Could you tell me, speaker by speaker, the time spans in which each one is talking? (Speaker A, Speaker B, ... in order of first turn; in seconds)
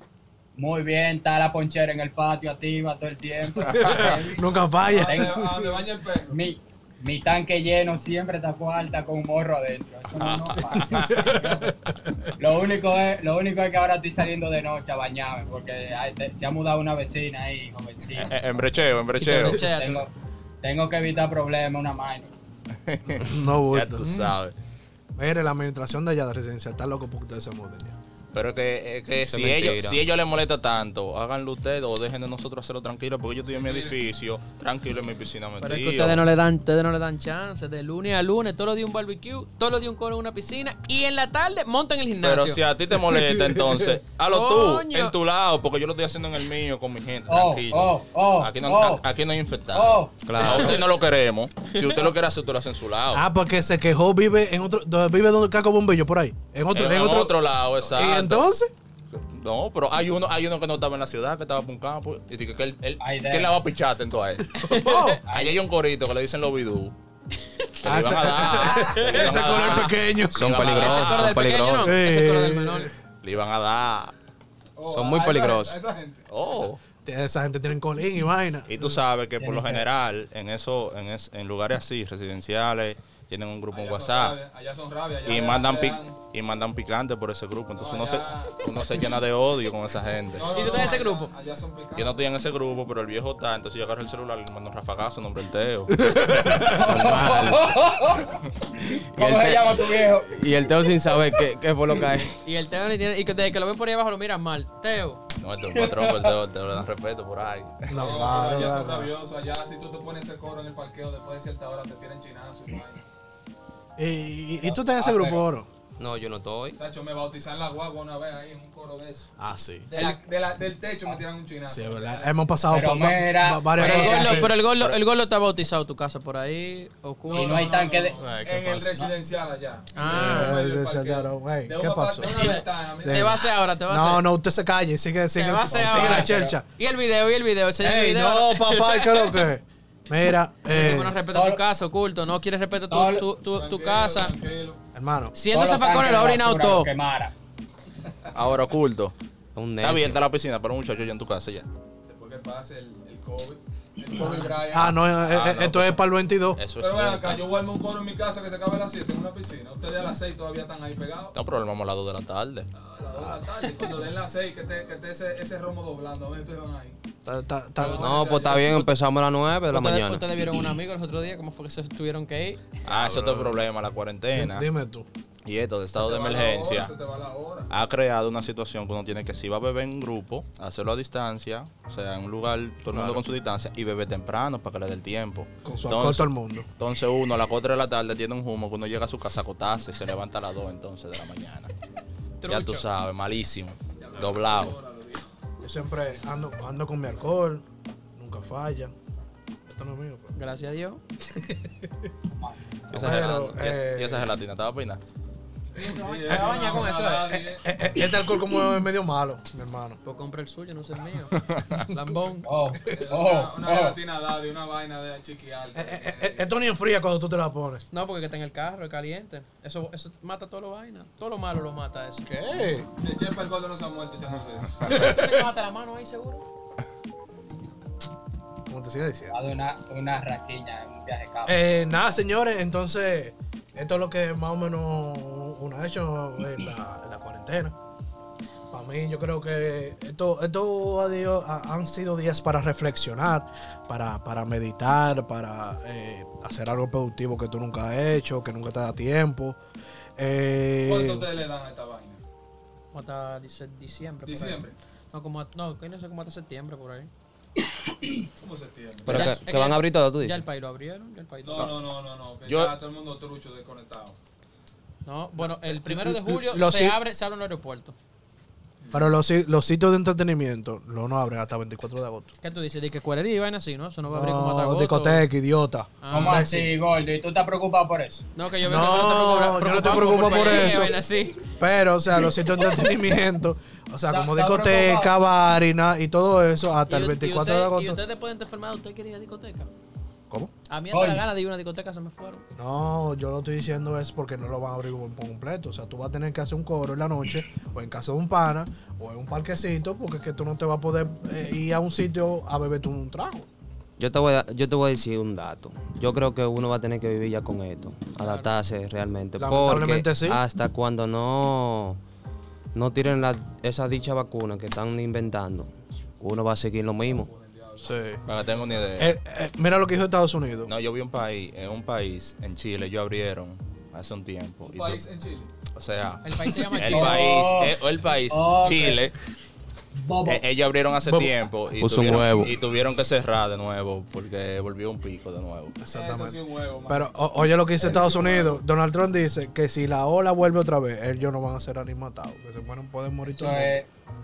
Speaker A: 0.6-5.5, 6.3-11.8, 12.3-18.4, 19.4-20.1, 20.6-22.3, 47.3-49.0, 49.7-50.7, 63.0-63.5, 65.3-65.6, 79.4-79.8, 96.7-100.5, 105.7-106.3, 114.6-115.5, 122.7-124.5, 127.3-128.2, 135.8-136.6, 140.9-141.6, 142.9-143.3, 145.5-147.3, 202.3-202.6, 212.4-214.0, 229.3-231.7, 276.1-278.2, 284.1-285.1, 290.9-291.2, 326.8-327.8, 328.3-329.0, 330.0-330.4, 343.3-343.9
Speaker B: 3.6-5.8, 10.8-11.8, 23.2-24.1, 25.2-28.0, 43.2-43.8, 53.1-57.4, 57.9-58.7, 64.6-65.2, 67.8-70.7, 71.8-72.9, 77.0-78.7, 95.9-97.0, 107.9-109.1, 114.0-115.7, 119.4-119.9, 121.7-124.9, 128.2-129.1, 130.1-136.7, 137.8-141.2, 144.9-145.3, 154.7-156.6, 167.2-168.5, 172.9-173.6, 174.3-175.1, 182.9-183.2, 185.7-186.7, 195.6-197.6, 198.2-198.9, 199.7-200.3, 201.3-201.9, 202.9-204.3, 206.2-210.0, 215.8-217.8, 222.3-222.9, 224.9-225.4, 228.7-229.4, 231.5-237.8, 238.7-249.6, 250.2-251.3, 265.4-267.0, 268.9-272.3, 274.1-276.7, 278.6-288.0, 292.6-303.5, 309.4-310.4, 317.8-318.2, 319.0-320.7, 331.1-331.3, 335.8-343.8
Speaker C: 3.7-4.1, 10.2-11.2, 18.1-19.6, 22.9-24.5, 28.3-36.2, 42.2-53.3, 56.7-58.5, 59.1-64.6, 65.3-66.9, 67.8-71.4, 73.2-74.1, 76.3-76.8, 78.7-84.4, 85.3-90.5, 92.0-96.6, 99.2-99.9, 105.4-108.0, 148.3-149.2, 149.8-151.7, 155.2-157.5, 161.3-163.3, 172.8-174.7, 175.4-176.9, 177.7-191.7, 192.5-194.8, 202.9-205.0, 211.3-211.9, 262.5-262.8, 318.3-319.1, 320.7-325.0, 325.7-329.1, 330.2-335.8
Speaker D: 4.8-6.4, 33.5-34.0, 74.8-76.3, 83.7-86.2, 87.8-88.6, 90.3-92.2, 107.9-113.0, 116.8-119.3, 119.9-122.3, 127.3-133.4, 143.4-144.8, 152.1-155.1, 156.8-161.4, 162.8-167.0, 167.8-168.9, 175.9-177.7, 194.0-195.3, 205.8-207.7, 212.9-216.5, 222.9-225.1, 250.8-252.2, 254.2-254.8, 258.4-259.4, 261.4-264.2, 268.8-269.2, 317.0-319.0, 324.7-325.5, 335.9-337.2, 337.8-338.6
Speaker E: 19.2-20.1, 24.0-24.4, 35.6-42.6, 44.3-45.1, 50.4-50.8, 51.7-52.1, 64.6-65.2, 68.8-69.4, 70.7-72.9, 90.5-91.3, 102.3-105.2, 123.8-127.7, 129.9-130.6, 132.3-134.3, 135.3-139.5, 140.7-144.4, 145.3-146.9, 168.2-168.9, 169.7-172.6, 192.4-192.9, 200.3-201.0, 205.8-207.3, 210.0-212.5, 217.9-222.8, 224.8-226.4, 252.9-257.1, 259.1-261.7, 265.1-267.9, 272.4-275.3, 276.0-276.6, 278.4-281.4, 286.9-289.7, 290.7-292.5, 308.2-308.5, 326.2-327.3
Speaker F: 29.3-30.0, 50.2-50.8, 70.3-72.0, 74.9-75.8, 96.8-97.7, 99.2-99.6, 100.3-102.3, 116.0-116.8, 149.6-150.2, 168.0-170.3, 259.1-260.4, 304.0-312.0, 312.8-317.3, 331.8-332.6